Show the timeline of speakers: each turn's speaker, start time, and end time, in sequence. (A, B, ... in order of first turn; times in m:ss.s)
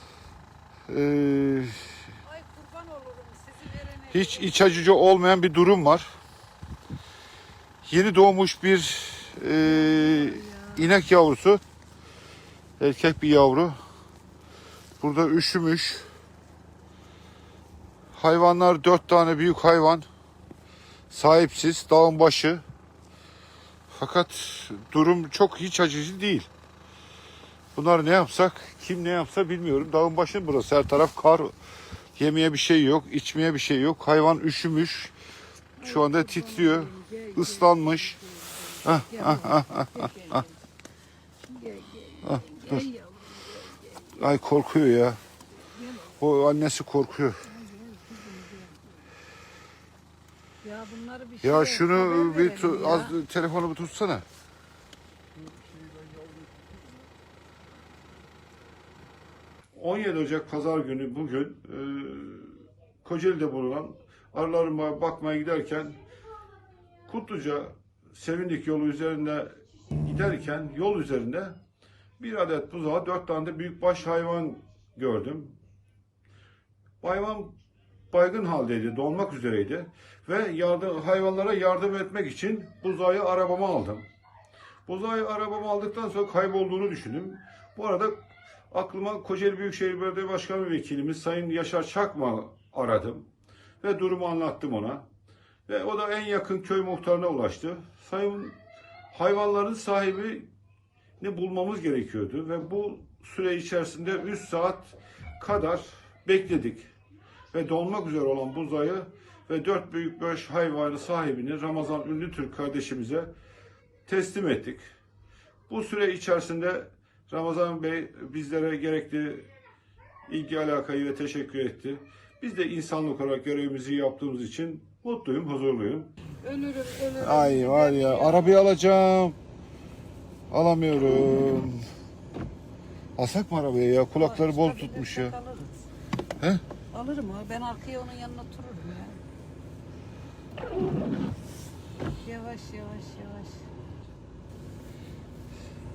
0:00.9-0:01.7 A
0:02.2-0:04.9 B
0:04.1-0:06.1 A
0:07.8-0:11.6 A
0:09.6-0:10.9 B
0:12.8-0:13.8 A
0:15.0-0:16.0 A
0:18.1-0:20.0 A
0:21.1-0:22.6 A
0:23.9-0:26.5 A
0:27.7-0:31.5 A
0:32.2-0:35.1 A
0:35.8-0:40.5 B
0:35.8-0:38.2 A
0:38.8-0:40.4 A
0:41.4-0:44.2 B
0:42.2-0:42.8 A
0:44.2-0:45.2 A
0:45.7-0:45.9 B
0:46.0-0:47.4 A
0:47.4-0:48.8 B
0:50.6-0:53.2 B
0:51.4-0:54.2 A
0:59.7-1:06.0 A
1:07.1-1:11.6 A
1:12.2-1:15.6 A
1:17.0-1:17.5 A
1:18.1-1:24.0 A
1:24.8-1:28.2 A
1:28.7-1:33.3 A
1:33.8-1:35.0 A
1:35.7-1:38.6 A
1:39.1-1:40.5 A
1:41.2-1:46.9 A
1:47.5-1:53.3 A
1:54.0-1:54.8 A
1:55.7-1:59.5 A
2:00.2-2:06.1 A
2:06.4-2:08.6 B
2:07.2-2:09.4 A
2:10.5-2:11.8 A
2:13.2-2:15.3 A
2:14.2-2:15.7 B
2:16.9-2:19.2 B
2:22.2-2:23.6 B